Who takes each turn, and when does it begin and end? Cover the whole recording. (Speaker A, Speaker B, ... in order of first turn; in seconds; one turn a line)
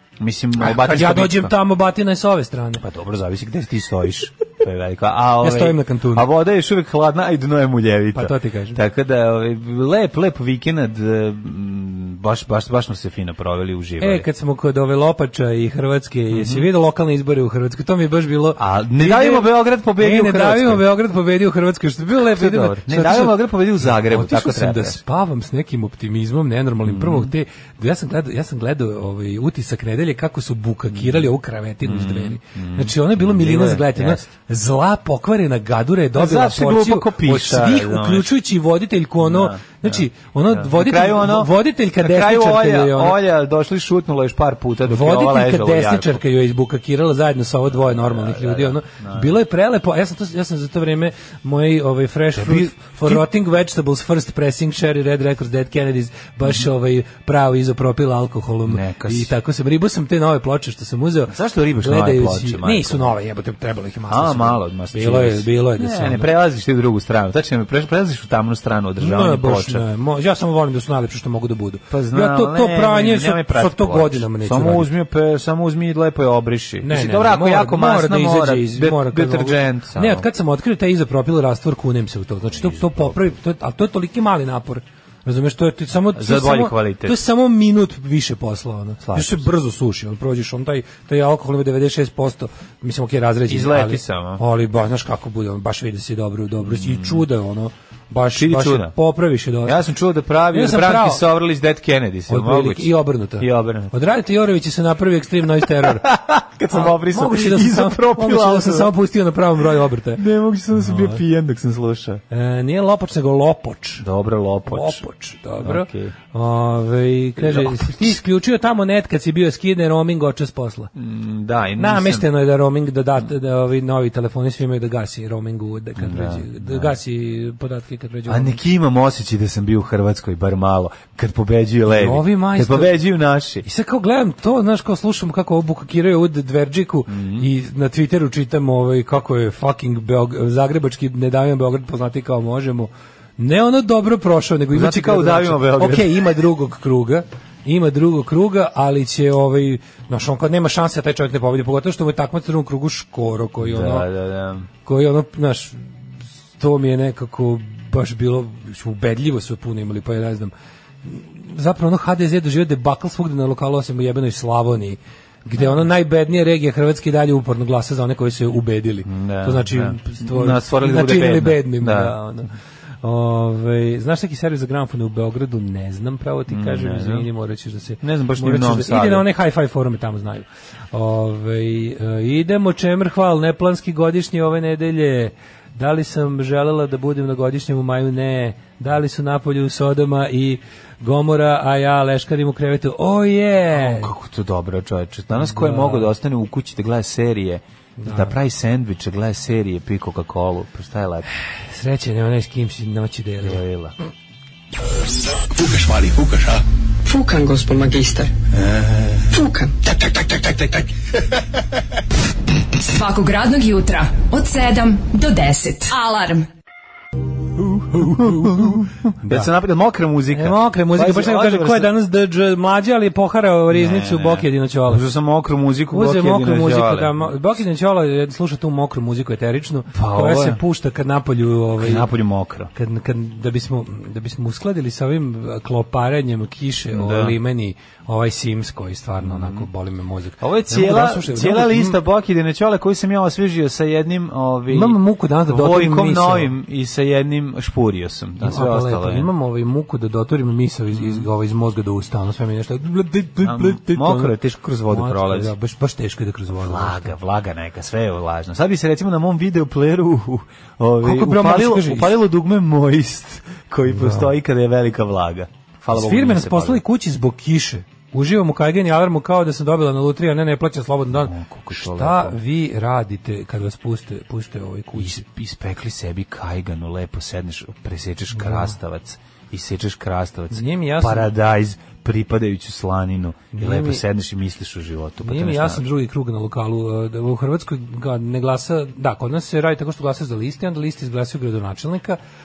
Speaker A: 0.2-1.5
Speaker B: 0.6-2.8
Speaker A: 2.8-14.2
Speaker B: 5.4-6.2
Speaker B: 8.1-8.8
Speaker B: 14.0-43.2
Speaker A: 16.3-16.7
Speaker A: 18.6-20.9
Speaker A: 22.1-25.0
Speaker A: 26.8-27.3
Speaker A: 30.9-31.2
Speaker A: 31.8-34.3
Speaker A: 36.1-38.4
Speaker A: 39.2-46.2
Speaker B: 44.9-66.3
Speaker A: 47.7-49.4
Speaker A: 52.3-53.3
Speaker A: 58.6-59.3
Speaker A: 61.3-63.1
Speaker A: 64.1-69.8
Speaker B: 69.0-74.9
Speaker A: 71.9-80.3
Speaker B: 76.8-99.8
Speaker A: 82.5-83.2
Speaker A: 86.1-87.2
Speaker A: 89.0-89.5
Speaker A: 93.5-94.4
Speaker A: 96.6-97.2
Speaker A: 98.3-98.9
Speaker A: 99.6-103.9
Speaker B: 100.5-101.2
Speaker B: 102.3-106.1
Speaker A: 105.8-108.9
Speaker B: 106.7-110.2
Speaker A: 110.2-112.2
Speaker B: 110.8-111.2
Speaker B: 112.3-114.0
Speaker A: 114.0-115.0
Speaker B: 114.7-120.9
Speaker A: 115.6-116.1
Speaker A: 117.4-118.2
Speaker A: 120.9-122.2
Speaker B: 121.8-128.6
Speaker A: 126.0-126.9
Speaker A: 128.3-133.6
Speaker B: 131.9-132.9
Speaker B: 133.6-154.1
Speaker A: 137.1-137.5
Speaker A: 144.7-146.2
Speaker A: 153.6-154.7
Speaker B: 154.8-155.9
Speaker B: 156.6-160.5
Speaker B: 161.0-172.5
Speaker A: 169.1-172.2
Speaker B: 173.0-194.1
Speaker A: 176.5-177.3
Speaker A: 178.0-179.2
Speaker A: 193.7-201.3
Speaker B: 195.3-196.1
Speaker B: 198.0-198.4
Speaker B: 201.7-203.6
Speaker A: 203.4-203.9
Speaker C: 205.5-210.9
Speaker D: 212.8-216.5
Speaker B: 217.6-219.5
Speaker A: 217.9-221.9
Speaker B: 220.3-225.0
Speaker A: 223.7-227.3
Speaker B: 225.9-232.1
Speaker A: 229.9-230.6
Speaker A: 231.8-232.7
Speaker B: 232.7-242.0
Speaker A: 236.9-237.4
Speaker A: 239.2-239.7
Speaker A: 240.4-249.3
Speaker B: 244.7-246.5
Speaker B: 248.4-254.3
Speaker A: 250.9-251.3
Speaker A: 253.4-255.5
Speaker B: 254.9-257.1
Speaker A: 256.5-266.8
Speaker B: 261.0-262.2
Speaker B: 263.9-264.3
Speaker B: 265.9-275.2
Speaker A: 271.1-272.4
Speaker A: 274.9-285.8
Speaker B: 278.3-278.7
Speaker B: 280.5-281.3
Speaker B: 283.5-284.0
Speaker B: 285.2-292.2